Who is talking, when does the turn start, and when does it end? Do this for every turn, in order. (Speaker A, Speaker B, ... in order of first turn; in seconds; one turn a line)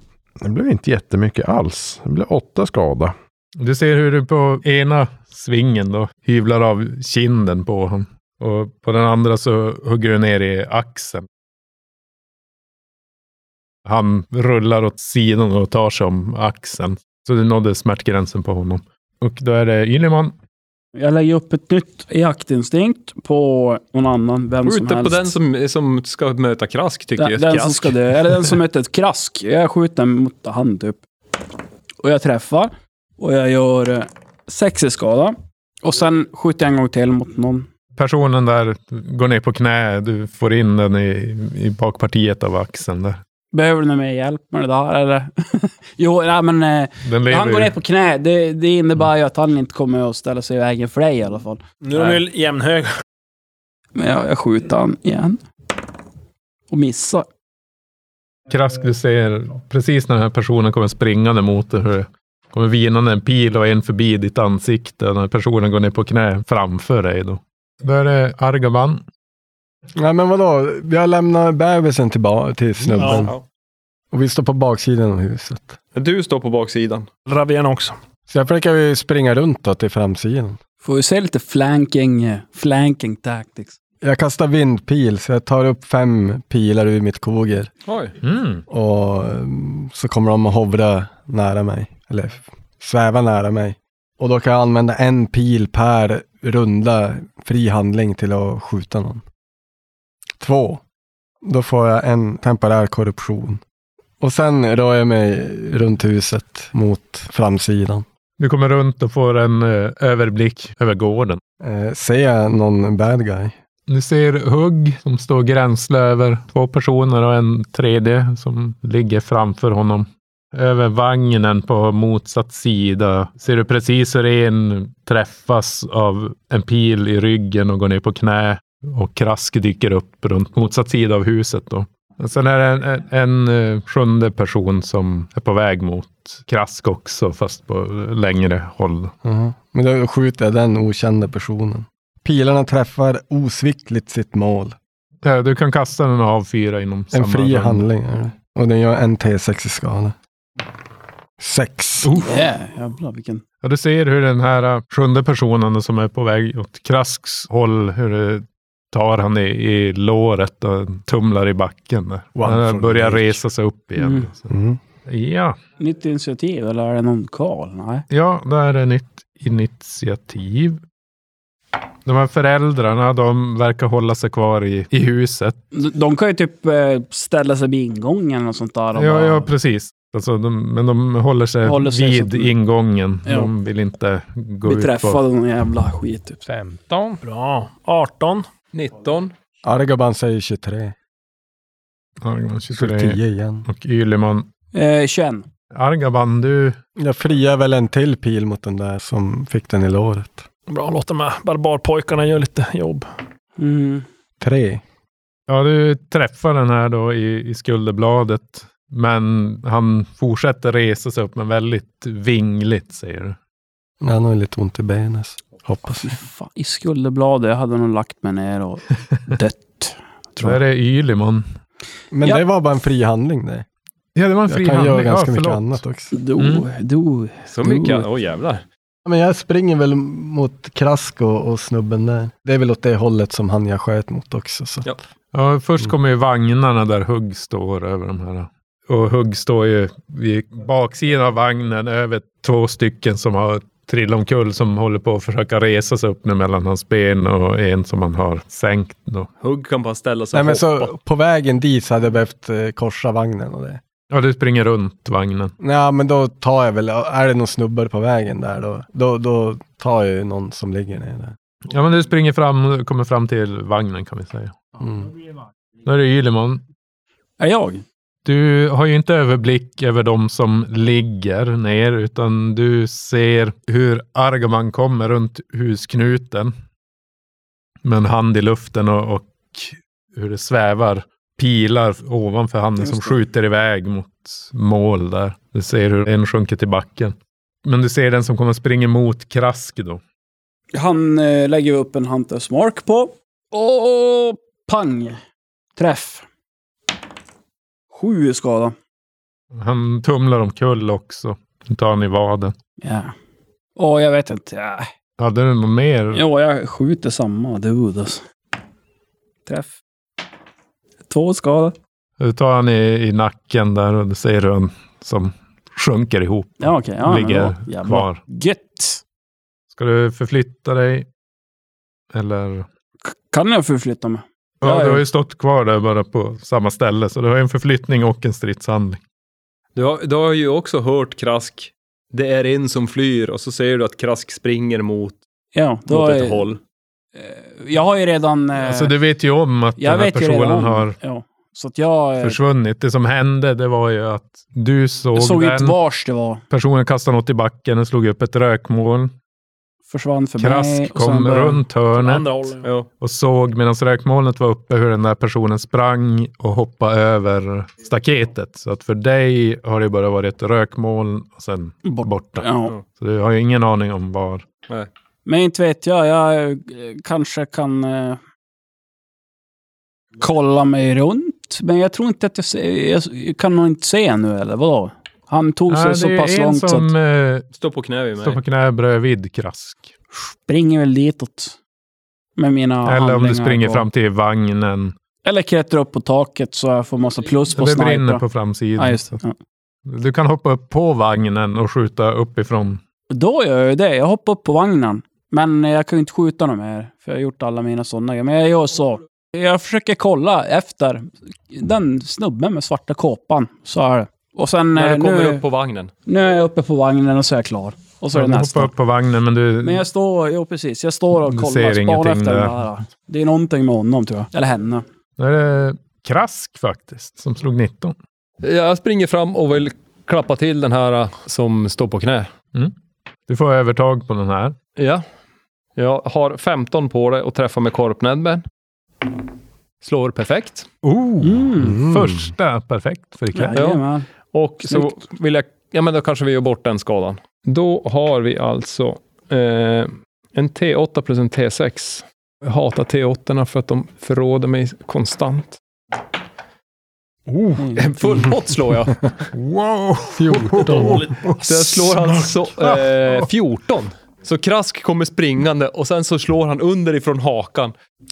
Speaker A: 0.4-3.1
Speaker B: 3.6-11.2
Speaker B: 13.9-20.4
Speaker C: 20.9-25.4
Speaker D: 24.6-28.0
Speaker C: 27.2-31.0
Speaker C: 32.0-37.7
Speaker B: 38.0-43.2
Speaker C: 43.5-51.6
Speaker B: 47.0-47.7
Speaker E: 51.8-52.9
Speaker C: 54.0-55.4
Speaker C: 56.7-57.2
Speaker B: 58.5-69.0
Speaker F: 70.0-73.3
Speaker E: 73.0-73.3
Speaker D: 73.0-73.4
Speaker F: 74.1-75.8
Speaker D: 75.9-77.1
Speaker E: 77.2-78.0
Speaker F: 78.3-80.6
Speaker C: 80.8-83.8
Speaker F: 84.0-87.7
Speaker D: 87.9-88.2
Speaker B: 88.2-88.6
Speaker F: 88.7-99.2
Speaker F: 100.4-100.8
Speaker F: 101.4-103.6
Speaker F: 104.2-108.0
Speaker B: 108.4-111.4
Speaker F: 111.6-113.5
Speaker B: 113.9-139.1
Speaker F: 139.2-144.8
Speaker B: 145.2-147.8
Speaker F: 147.1-150.1
Speaker F: 151.4-152.1
Speaker B: 152.0-152.4
Speaker C: 152.2-153.4
Speaker B: 153.6-164.5
Speaker F: 162.4-163.4
Speaker C: 164.0-164.3
Speaker F: 164.5-164.8
Speaker B: 165.1-165.6
Speaker C: 165.8-168.1
Speaker B: 168.1-170.8
Speaker B: 172.1-175.6
Speaker C: 175.7-179.5
Speaker B: 179.0-185.2
Speaker C: 181.6-182.5
Speaker C: 184.6-186.4
Speaker A: 186.4-187.2
Speaker E: 187.2-188.5
Speaker D: 188.7-189.3
Speaker F: 189.6-190.9
Speaker B: 192.2-194.5
Speaker F: 192.8-193.7
Speaker C: 194.7-195.5
Speaker B: 195.7-196.8
Speaker F: 197.0-200.4
Speaker E: 200.7-203.1
Speaker C: 203.6-204.1
Speaker F: 204.4-204.8
Speaker B: 205.5-213.4
Speaker F: 214.0-216.1
Speaker C: 216.0-220.6
Speaker B: 220.4-221.5
Speaker F: 222.1-223.6
Speaker B: 224.1-225.8
Speaker F: 224.5-226.1
Speaker C: 226.1-228.1
Speaker B: 226.4-226.6
Speaker D: 227.5-228.6
Speaker F: 229.0-234.9
Speaker B: 235.3-249.3
Speaker D: 249.4-250.9
Speaker F: 250.3-253.8
Speaker B: 254.1-255.5
Speaker F: 255.6-261.4
Speaker B: 261.6-264.6
Speaker F: 264.8-265.1
Speaker B: 265.9-266.6
Speaker C: 267.4-267.8
Speaker B: 268.2-276.5
Speaker B: 277.8-290.0
Speaker C: 282.8-283.1
Speaker C: 290.7-295.2
Speaker C: 295.8-296.2
Speaker C: 297.9-298.8
Speaker B: 299.5-302.5
Speaker C: 302.8-303.1
Speaker C: 303.8-304.9
Speaker B: 305.2-306.2
Speaker C: 306.1-308.2
Speaker C: 309.5-309.8
Speaker C: 311.1-311.8
Speaker B: 312.2-318.2
Speaker C: 316.6-319.0
Speaker B: 319.7-321.1
Speaker B: 322.1-322.7
Speaker C: 323.0-325.0
Speaker B: 324.6-329.0
Speaker D: 329.8-335.2
Speaker C: 335.5-336.5
Speaker D: 335.9-336.6
Speaker C: 337.1-338.9
Speaker B: 338.6-340.9
Speaker C: 339.8-342.4
Speaker B: 342.2-345.8
Speaker C: 345.1-346.4
Speaker B: 346.5-349.1
Speaker C: 349.9-351.6
Speaker B: 350.4-352.4
Speaker E: 351.9-352.7
Speaker D: 352.6-352.9
Speaker B: 353.0-364.4
Speaker C: 361.9-362.7
Speaker C: 365.2-368.2
Speaker C: 370.2-376.9
Speaker B: 375.7-377.5
Speaker D: 377.5-378.4
Speaker B: 378.2-379.9
Speaker C: 380.1-381.6
Speaker C: 382.4-383.9
Speaker B: 382.9-384.9
Speaker C: 385.2-388.2
Speaker B: 387.5-389.2
Speaker C: 388.8-389.4
Speaker B: 389.9-392.8
Speaker C: 393.1-405.4
Speaker D: 404.8-405.9
Speaker C: 406.1-408.7
Speaker B: 408.1-409.8
Speaker C: 409.6-414.9
Speaker B: 411.2-412.6
Speaker B: 415.2-418.0
Speaker D: 418.4-422.3
Speaker B: 423.3-424.6
Speaker D: 424.8-425.0
Speaker D: 425.8-428.4
Speaker D: 429.8-430.7
Speaker B: 430.8-433.6
Speaker C: 431.2-431.8
Speaker F: 431.6-432.3
Speaker C: 433.3-434.1
Speaker D: 433.6-445.6
Speaker C: 434.7-435.0
Speaker D: 447.7-449.3
Speaker B: 449.3-453.3
Speaker F: 450.1-451.1
Speaker D: 450.6-457.7